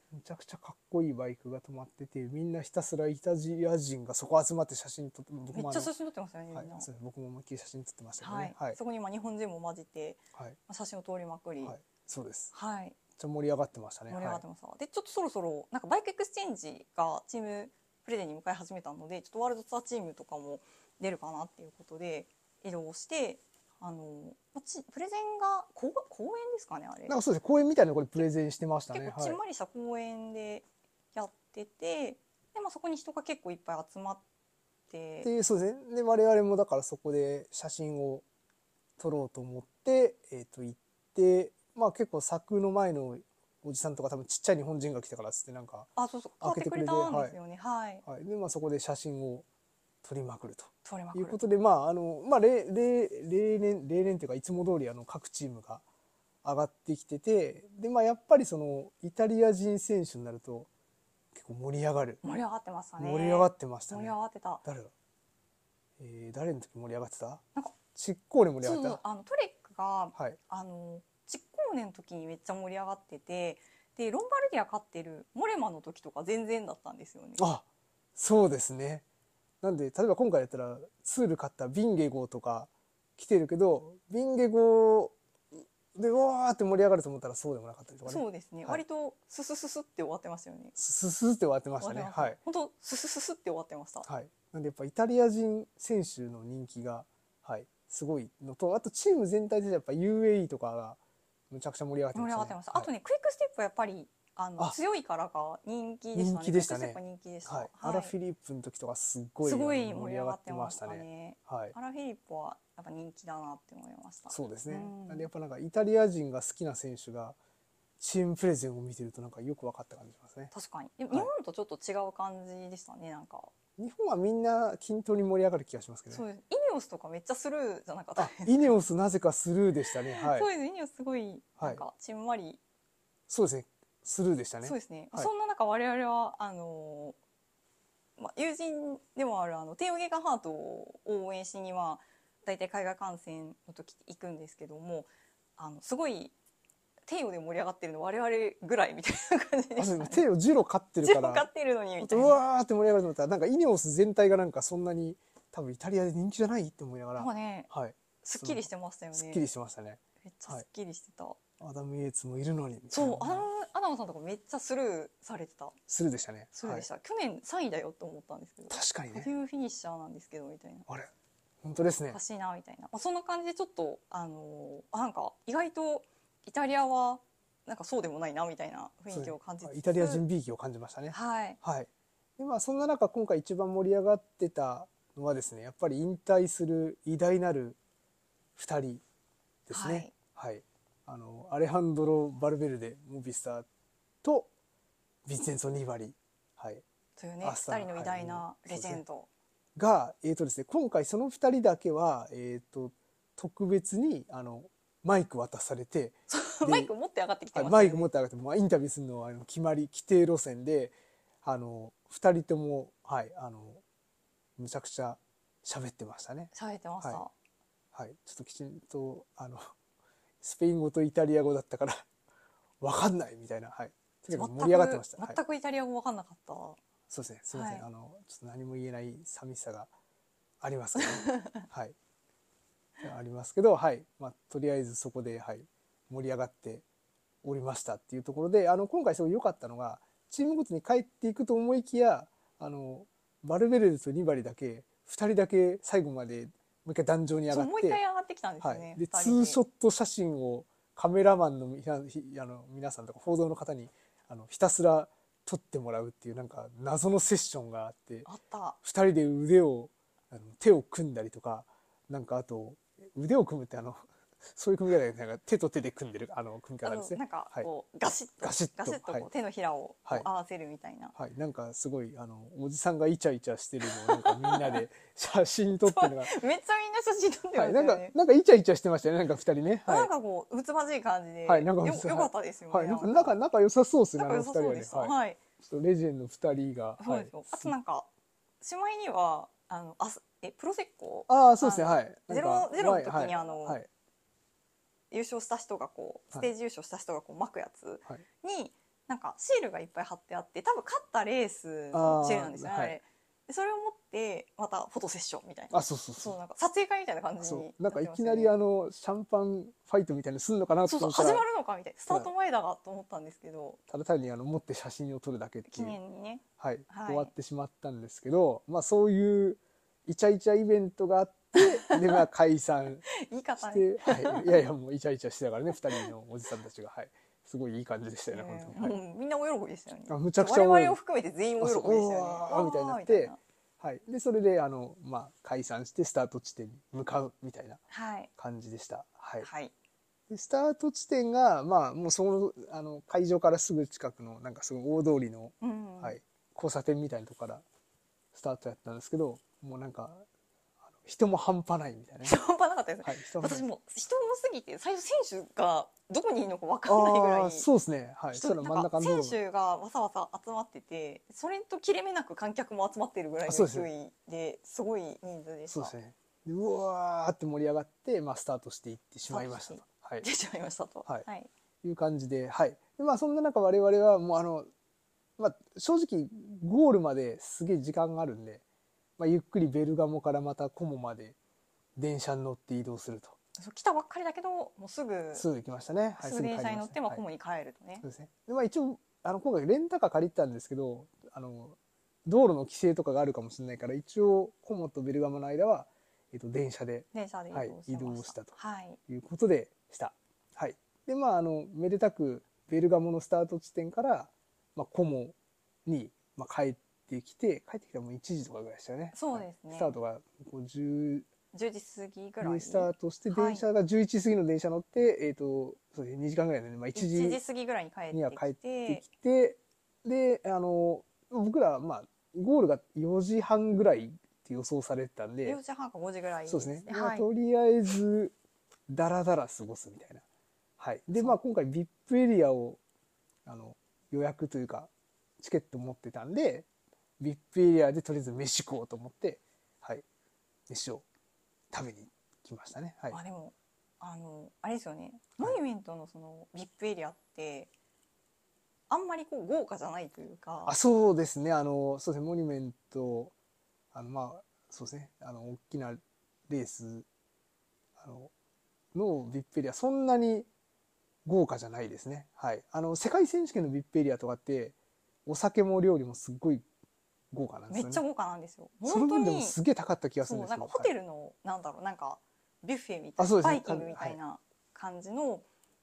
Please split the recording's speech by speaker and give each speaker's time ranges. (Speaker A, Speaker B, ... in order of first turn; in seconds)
Speaker A: 0.1-5.9, 6.5-8.8, 11.6-12.5, 13.1-14.4, 27.1-29.4, 35.2-38.2, 39.0-47.4, 48.0-49.5, 50.0-55.8, 56.4-60.7, 61.3-62.2, 63.0-64.9, 66.0-69.0, 77.4-77.6, 78.2-79.0, 79.6-88.8, 90.8-92.4, 94.0-101.0, 101.5-102.9, 106.1-111.7, 114.3-117.4, 118.0-120.5, 123.8-126.2, 128.2-130.5, 133.3-135.3, 149.8-151.5, 152.0-160.6, 161.6-163.5, 165.9-166.9, 168.7-169.3, 171.6-172.2, 179.1-187.8, 188.6-189.0, 189.7-193.7, 194.2-194.5, 195.2-196.8, 197.4-199.0, 199.8-206.9, 207.5-213.8, 214.6-217.2, 217.9-219.7, 220.4-222.1, 222.8-225.4, 227.1-229.9, 230.6-231.9, 233.0-236.8, 237.4-248.0, 248.6-258.3, 258.8-267.7, 268.4-269.3, 271.1-276.3, 277.5-280.1, 281.5-287.7, 291.3-293.9, 301.9-303.0, 305.7-306.4, 307.4-311.4, 313.9-316.0, 316.6-329.0, 330.1-331.0, 331.6-337.8, 338.4-339.5, 340.3-347.6, 348.3-350.2, 351.0-352.4, 353.0-353.7, 356.9-359.4, 363.4-363.9, 365.7-370.2, 371.8-374.7, 375.4-378.6, 379.2-381.4, 382.0-383.4, 385.3-387.2, 388.0-405.3, 405.9-411.3, 412.4-417.4, 418.1-425.6, 426.5-428.3, 428.9-430.2, 430.8-432.8, 433.4-436.6, 437.2-440.0, 440.7-441.0, 441.7-443.2, 450.6-453.3, 453.9-457.1, 458.0-458.3, 458.9-460.5, 461.2-464.7, 465.2-466.6, 467.3-468.0, 468.8-470.9, 473.2-474.2
Speaker B: 5.5-6.9, 8.2-11.8, 12.5-13.0, 14.1-27.1, 28.9-34.2, 34.9-35.3, 46.0-48.0, 50.8-51.4, 62.2-64.6, 68.6-77.4, 88.0-90.7, 91.8-94.1, 102.1-108.1, 109.4-115.3, 120.5-123.5, 126.1-128.7, 129.9-132.6, 134.6-137.2, 138.2-146.3, 147.1-150.2, 151.0-152.4, 157.2-157.7, 158.2-159.4, 160.2-161.4, 162.9-165.8, 166.5-170.9, 172.1-180.2, 181.1-181.6, 189.7-190.1, 197.2-199.3, 206.3-208.1, 216.5-217.3, 224.3-226.8, 227.5-227.8, 231.2-231.6, 247.5-249.6, 258.2-258.8, 266.8-271.1, 274.0-274.8, 275.9-278.1, 279.9-283.4, 284.2-285.4, 287.0-288.1, 288.6-293.8, 295.1-308.5, 310.9-313.8, 315.7-317.3, 321.6-322.2, 323.1-324.6, 328.3-333.4, 337.9-338.3, 339.4-339.7, 345.6-346.2, 352.2-357.7, 358.3-365.9, 369.3-371.5, 383.6-385.4, 386.2-388.0, 397.1-399.0, 409.1-409.9, 411.5-413.6, 416.9-419.0, 425.4-427.3, 443.1-447.7, 448.9-450.7, 467.7-469.6, 470.2-475.4